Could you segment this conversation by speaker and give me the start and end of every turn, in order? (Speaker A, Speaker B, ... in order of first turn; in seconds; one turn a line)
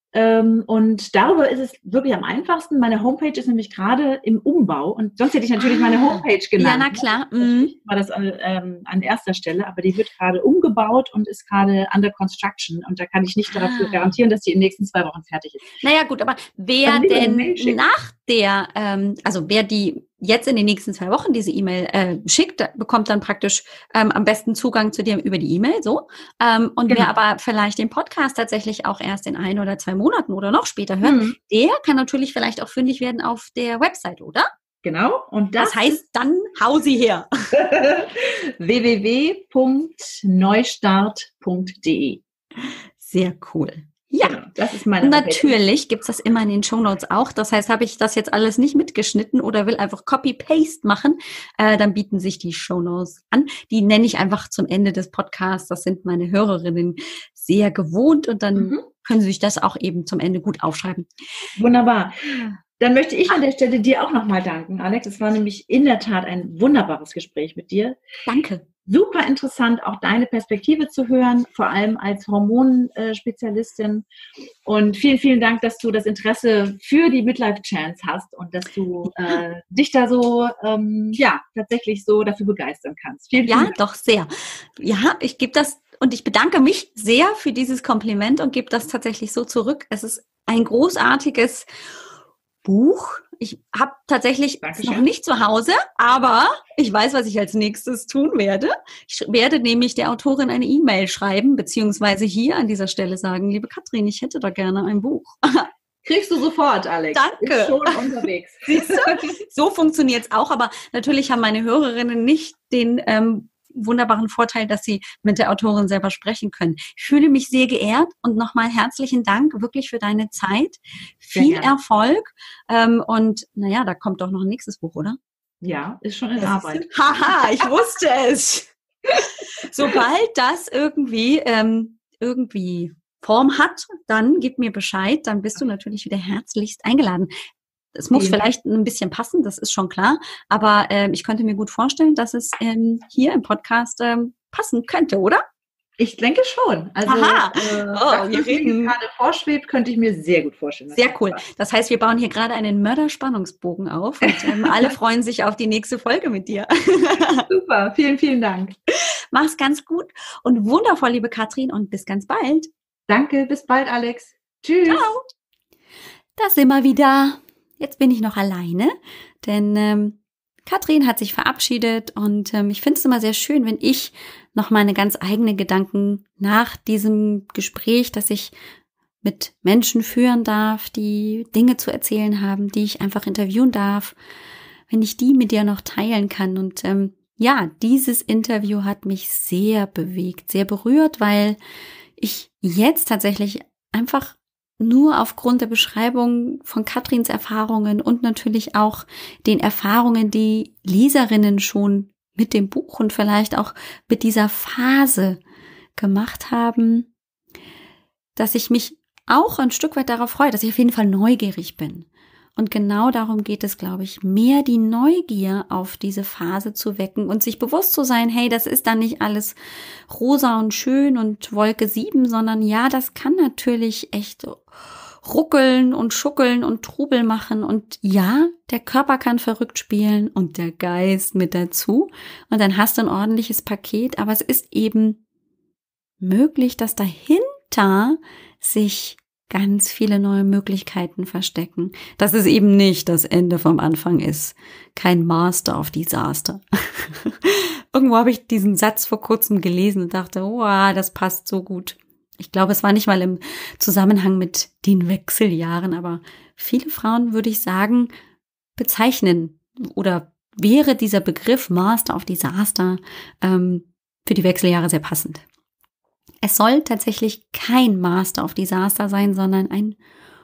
Speaker A: 0.1-15.8
Speaker B: 5.6-7.7
Speaker B: 13.5-14.1
Speaker B: 15.8-34.5
Speaker A: 16.8-17.8
Speaker A: 31.0-31.3
Speaker A: 34.8-36.0
Speaker B: 35.6-37.3
Speaker A: 37.5-42.2
Speaker B: 43.0-44.4
Speaker A: 44.2-45.5
Speaker B: 45.0-61.1
Speaker A: 58.5-58.8
Speaker A: 61.6-68.0
Speaker B: 62.2-62.6
Speaker B: 68.3-68.6
Speaker A: 68.8-74.0
Speaker A: 74.6-83.7
Speaker B: 83.5-91.7
Speaker B: 92.6-105.7
Speaker A: 94.6-95.1
Speaker A: 106.0-109.3
Speaker B: 107.1-125.2
Speaker A: 121.3-121.7
Speaker A: 125.6-126.9
Speaker B: 126.4-137.3
Speaker B: 137.9-145.4
Speaker A: 138.1-138.4
Speaker A: 146.0-151.4
Speaker B: 147.0-148.9
Speaker B: 150.9-157.5
Speaker A: 154.2-154.9
Speaker A: 157.5-158.7
Speaker B: 158.9-162.7
Speaker A: 163.1-165.1
Speaker B: 164.9-165.3
Speaker B: 166.4-178.5
Speaker B: 179.2-184.1
Speaker B: 184.9-191.6
Speaker B: 192.2-205.4
Speaker B: 206.0-207.1
Speaker B: 208.3-219.6
Speaker B: 220.1-224.7
Speaker B: 225.2-235.2
Speaker B: 236.2-258.1
Speaker B: 258.8-265.4
Speaker B: 266.4-270.0